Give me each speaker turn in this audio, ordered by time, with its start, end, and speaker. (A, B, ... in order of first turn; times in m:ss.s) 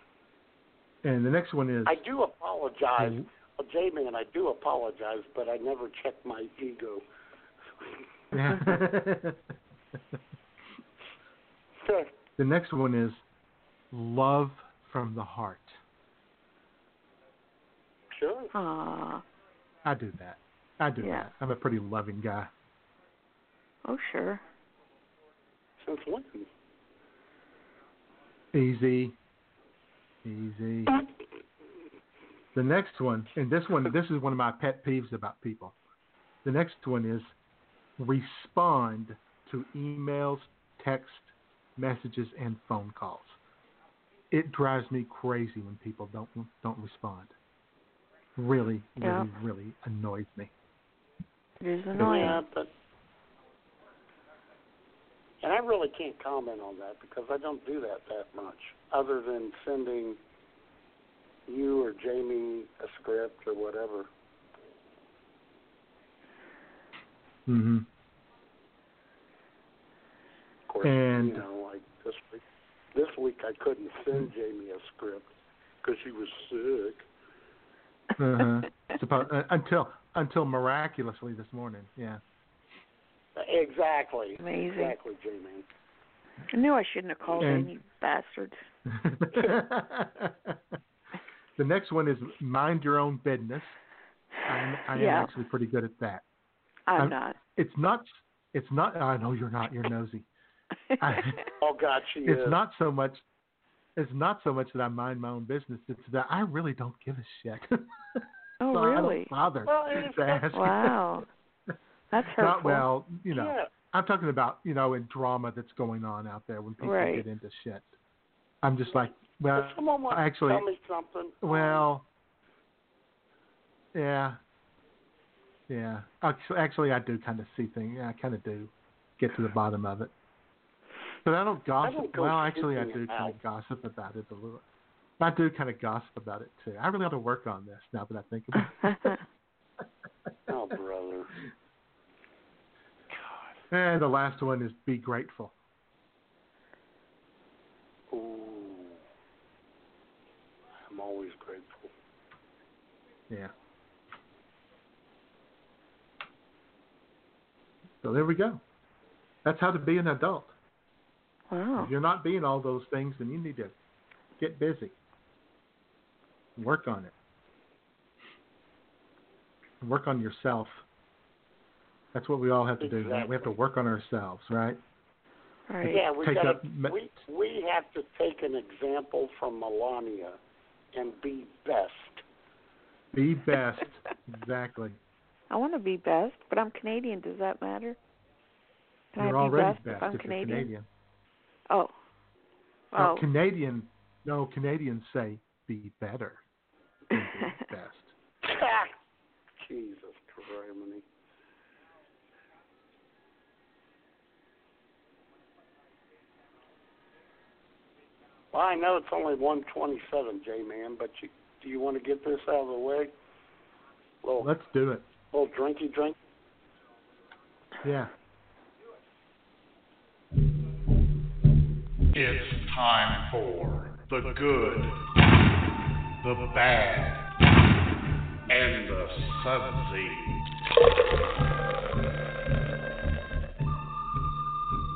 0:01.0-0:02.0 A
0:01.9-0:07.0 B
0:03.0-0:03.3 A
0:08.3-0:09.4 A
0:11.8-0:12.1 B
0:12.4-0:13.2 A
0:13.9-0:15.8 A
0:18.1-0:18.5 B
0:18.5-0:19.2 C
0:19.8-0:22.5 A
0:21.0-0:21.3 C
0:23.9-0:24.4 C
0:25.8-0:26.5 B
0:28.5-0:29.2 A
0:30.2-0:31.0 A
0:32.5-0:35.8 A
0:36.4-0:37.4 A
0:38.0-0:43.4 A
0:44.3-0:47.3 A
0:48.4-0:50.5 A
0:49.0-0:49.3 C
0:51.6-0:52.4 C
0:52.0-0:52.7 B
0:55.4-1:00.2 B
1:01.5-1:04.1 B
1:07.5-1:07.9 A
1:10.7-1:12.4 B
1:10.8-1:11.4 A
1:12.9-1:15.3 B
1:15.8-1:17.0 B
1:18.2-1:22.2 A
1:23.4-1:25.6 B
1:24.4-1:25.0 C
1:26.5-1:28.6 C
1:27.4-1:27.7 A
1:28.9-1:30.6 A
1:31.6-1:33.8 A
1:34.5-1:36.2 A
1:34.9-1:35.3 C
1:36.9-1:37.4 C
1:37.0-1:40.3 A
1:41.0-1:41.4 A
1:41.6-1:42.6 B
1:42.2-1:43.2 A
1:44.0-1:51.0 A
1:48.6-1:49.3 C
1:49.6-1:50.4 B
1:50.5-1:51.3 C
1:52.1-1:52.9 C
1:52.4-1:57.9 A
1:53.3-1:53.7 B
1:56.8-1:57.2 C
1:58.6-2:00.6 A
1:59.5-2:01.9 B
2:01.4-2:02.1 A
2:03.9-2:04.4 A
2:05.7-2:10.1 A
2:11.2-2:14.6 A
2:11.8-2:13.4 B
2:15.2-2:19.1 A
2:18.8-2:19.2 C
2:20.5-2:21.3 B
2:23.7-2:25.5 A
2:28.1-2:29.0 B
2:30.9-2:31.9 B
2:38.0-2:38.6 A
2:39.4-2:40.5 A
2:41.5-2:41.9 C
2:41.8-2:43.7 A
2:44.4-2:44.9 A
2:46.6-2:47.1 A
2:49.8-2:50.8 A
2:52.1-2:54.8 A
2:52.8-2:53.5 B
2:55.7-2:56.0 C
2:55.8-3:00.4 B
2:55.9-2:57.2 A
3:01.0-3:02.2 B
3:03.1-3:05.0 A
3:05.5-3:08.0 C
3:09.2-3:10.7 C
3:09.2-3:10.9 A
3:12.9-3:13.3 C
3:13.0-3:16.4 A
3:17.1-3:18.1 A
3:17.2-3:17.6 C
3:18.4-3:19.0 B
3:19.6-3:21.0 B
3:28.5-3:33.1 B
3:34.2-3:34.5 B
3:34.4-3:35.1 A
3:35.3-3:36.2 B
3:37.8-3:38.1 A
3:42.1-3:45.0 D
3:46.2-3:47.3 D
3:48.5-3:50.4 D